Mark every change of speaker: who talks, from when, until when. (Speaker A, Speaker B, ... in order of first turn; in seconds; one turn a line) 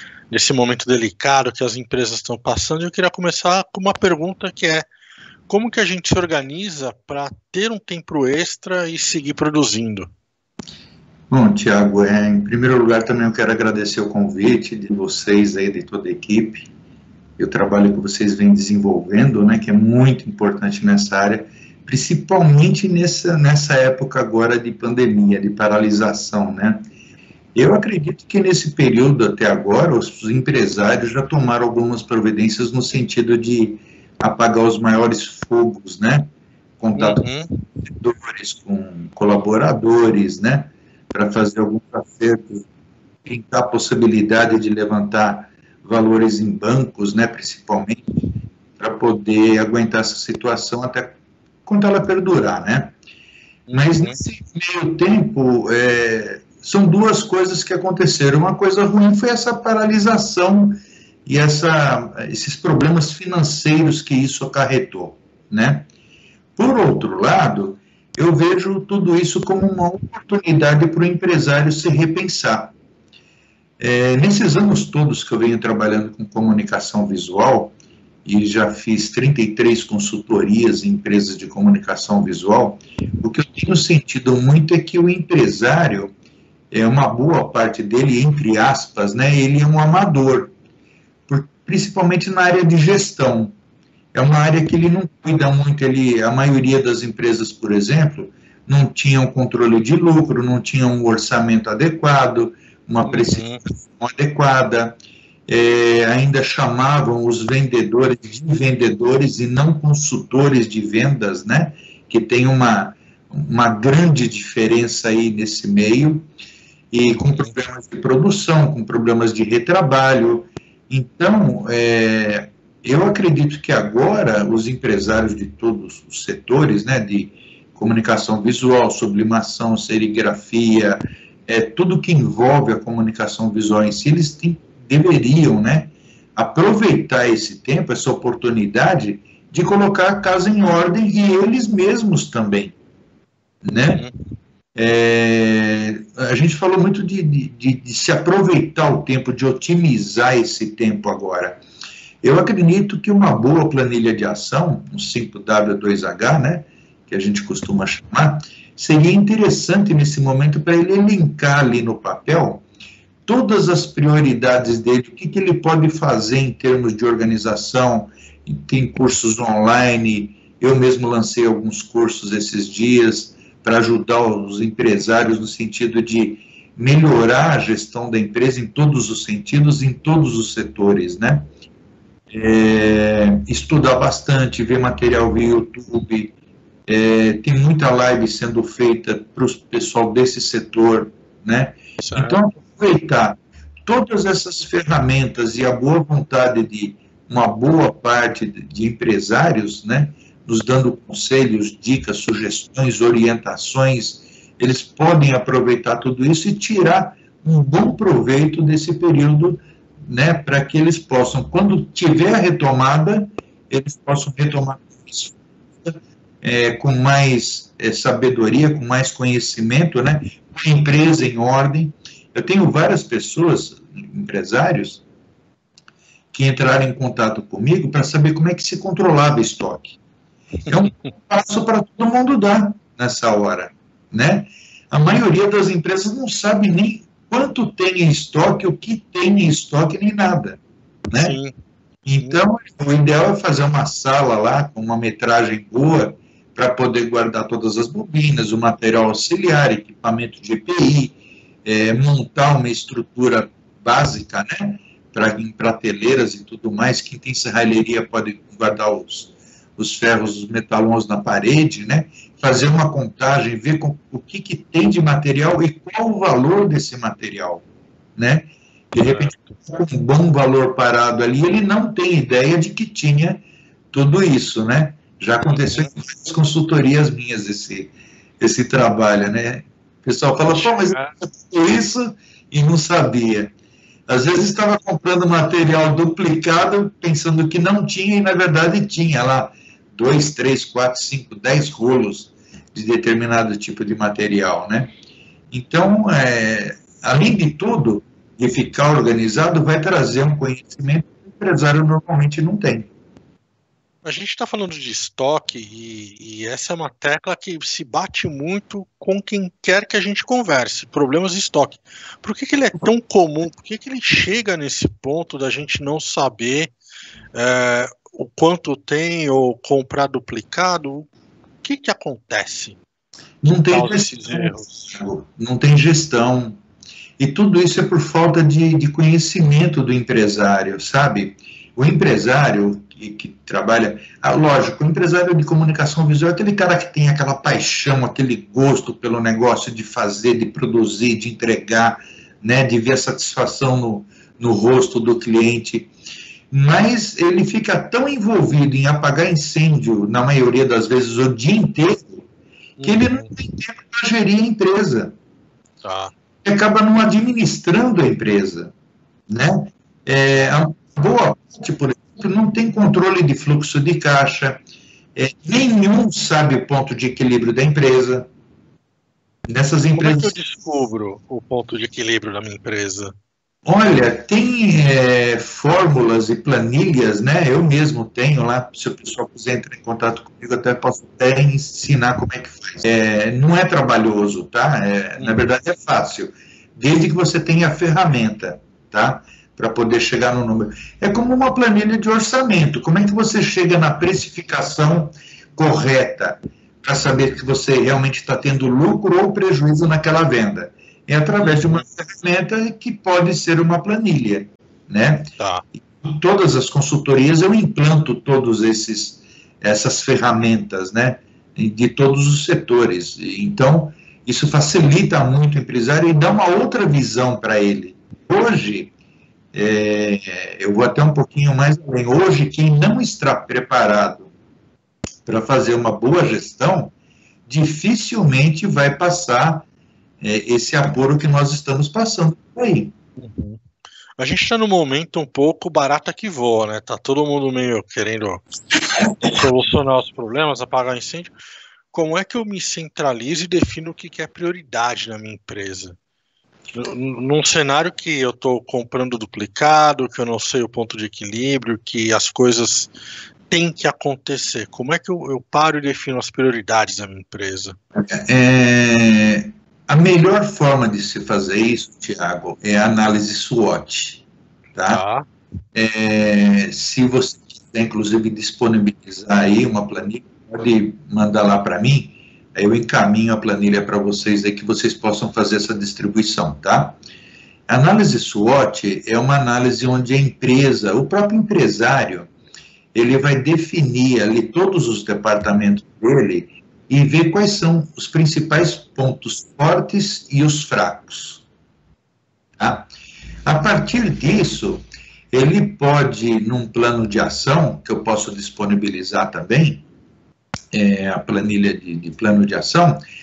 Speaker A: 0.3-4.9
Speaker A: 5.5-10.1
Speaker B: 11.3-16.7
Speaker B: 17.4-26.9
Speaker B: 27.6-37.3
Speaker A: 37.0-37.6
Speaker B: 37.9-42.7
Speaker B: 43.2-48.2
Speaker B: 48.8-52.9
Speaker A: 53.7-54.2
Speaker B: 53.7-65.9
Speaker B: 66.6-72.8
Speaker B: 73.8-77.7
Speaker B: 78.2-86.1
Speaker B: 86.7-90.5
Speaker B: 91.3-93.6
Speaker B: 94.1-116.3
Speaker A: 103.0-103.7
Speaker B: 116.9-142.8
Speaker A: 117.2-117.5
Speaker B: 143.6-144.0
Speaker A: 143.9-144.3
Speaker B: 144.8-151.6
Speaker B: 152.2-162.7
Speaker B: 163.3-181.5
Speaker B: 182.3-186.3
Speaker B: 186.9-225.0
Speaker A: 192.0-192.4
Speaker B: 226.3-230.0
Speaker A: 230.7-231.0
Speaker B: 230.7-241.4
Speaker A: 241.2-241.6
Speaker B: 242.0-283.5
Speaker A: 269.0-269.6
Speaker A: 275.4-275.9
Speaker A: 280.5-281.1
Speaker B: 284.1-294.9
Speaker B: 295.5-302.9
Speaker A: 304.0-316.7
Speaker A: 317.3-321.1
Speaker A: 321.6-322.8
Speaker B: 323.4-326.6
Speaker A: 323.5-324.9
Speaker B: 327.2-345.9
Speaker B: 346.5-352.2
Speaker A: 352.8-353.3
Speaker B: 352.8-355.2
Speaker A: 355.8-356.1
Speaker B: 356.4-358.7
Speaker B: 359.3-364.6
Speaker B: 365.1-368.3
Speaker B: 369.5-370.4
Speaker A: 369.9-373.1
Speaker B: 373.6-405.3
Speaker A: 401.4-401.8
Speaker A: 405.4-405.6
Speaker B: 405.9-418.9
Speaker B: 419.5-424.3
Speaker B: 425.2-426.9
Speaker B: 427.5-429.7
Speaker B: 430.2-432.9
Speaker A: 433.2-433.6
Speaker A: 434.2-438.4
Speaker B: 438.7-439.4
Speaker A: 439.3-441.3
Speaker A: 441.9-445.9
Speaker A: 446.7-452.9
Speaker A: 453.5-457.8
Speaker B: 457.9-465.0
Speaker A: 464.9-465.3
Speaker B: 465.7-477.0
Speaker B: 477.7-482.3
Speaker B: 482.9-491.4
Speaker B: 492.6-492.9
Speaker B: 493.4-499.9
Speaker B: 500.7-503.0